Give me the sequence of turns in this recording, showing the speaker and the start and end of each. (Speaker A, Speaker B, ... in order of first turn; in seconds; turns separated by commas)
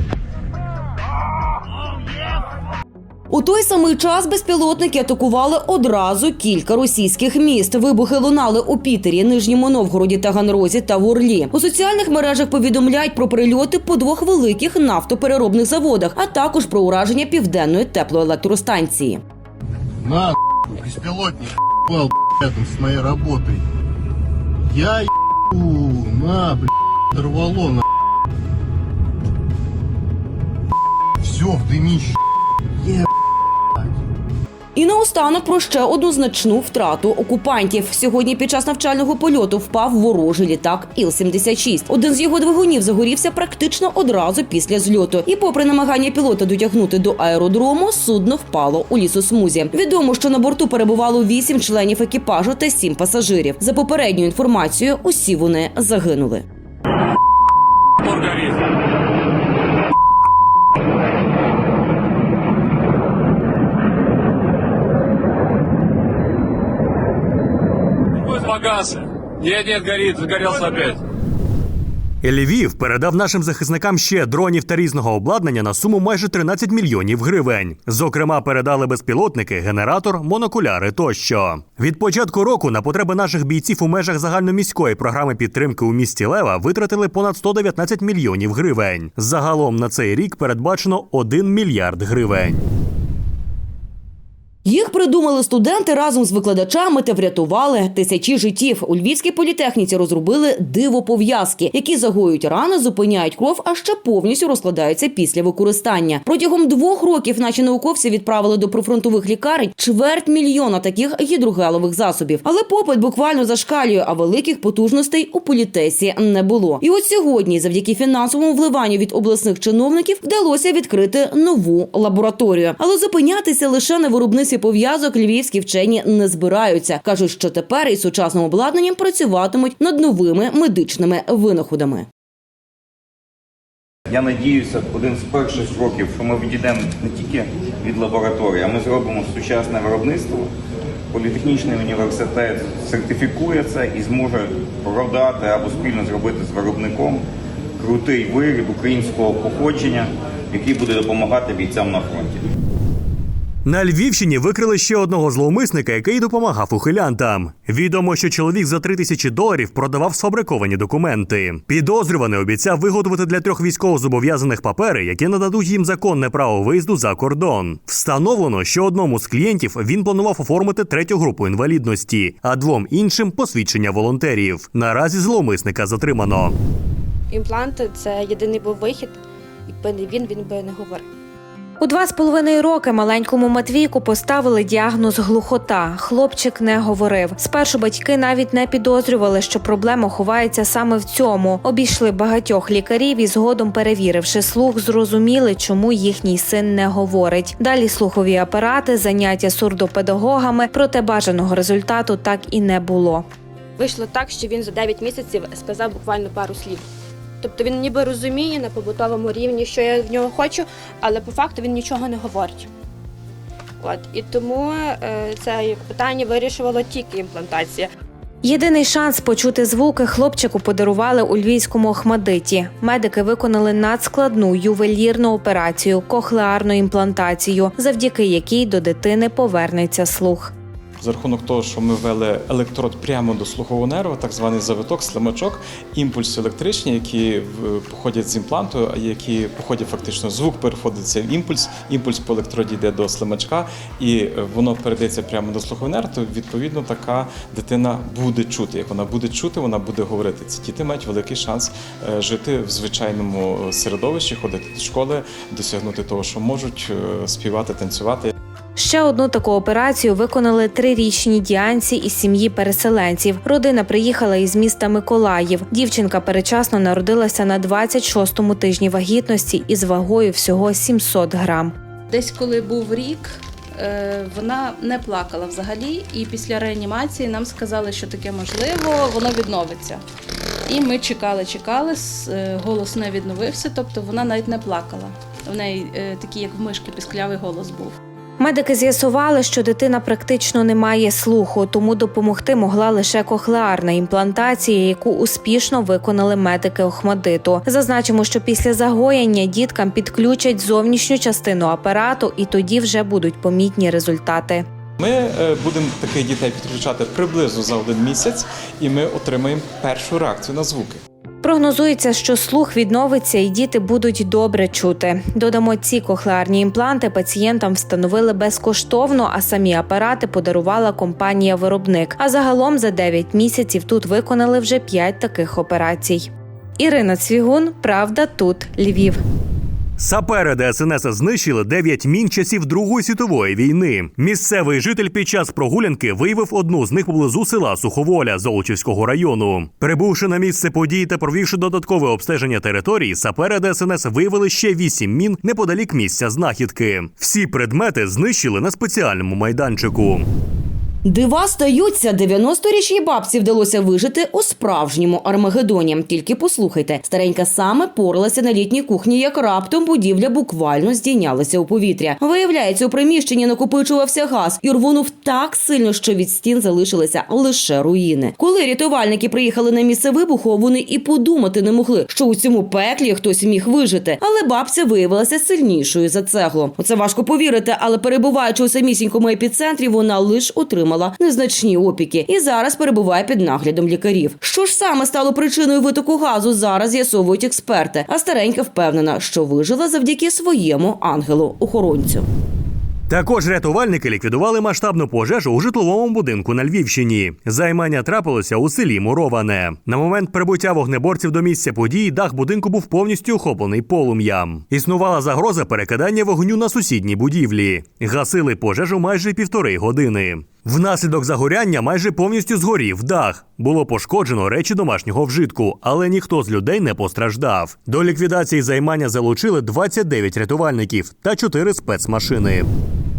Speaker A: 3.3-19.2, Speaker B: 20.1-21.4, Speaker B: 21.9-23.6, Speaker B: 24.7-25.1, Speaker B: 25.6-26.6, Speaker B: 27.2-27.8, Speaker B: 31.3-32.1, Speaker A: 34.7-56.4, Speaker C: 58.0-58.5, Speaker C: 68.2-71.0, Speaker D: 72.2-92.6, Speaker A: 94.6-132.1, Speaker E: 134.1-140.5, Speaker E: 141.1-147.2, Speaker E: 147.8-152.4, Speaker D: 153.7-176.6, Speaker F: 177.3-181.1, Speaker G: 181.8-203.2, Speaker F: 203.8-206.8, Speaker F: 207.4-212.7, Speaker F: 213.8-217.9, Speaker G: 218.4-230.5, Speaker H: 231.0-258.3, Speaker G: 258.8-271.7, Speaker I: 272.1-280.0, Speaker I: 280.7-287.9, Speaker G: 288.4-304.6, Speaker H: 305.0-311.0, Speaker G: 311.4-329.2, Speaker D: 330.0-350.3, Speaker A: 351.0-392.2, Speaker D: 393.1-422.7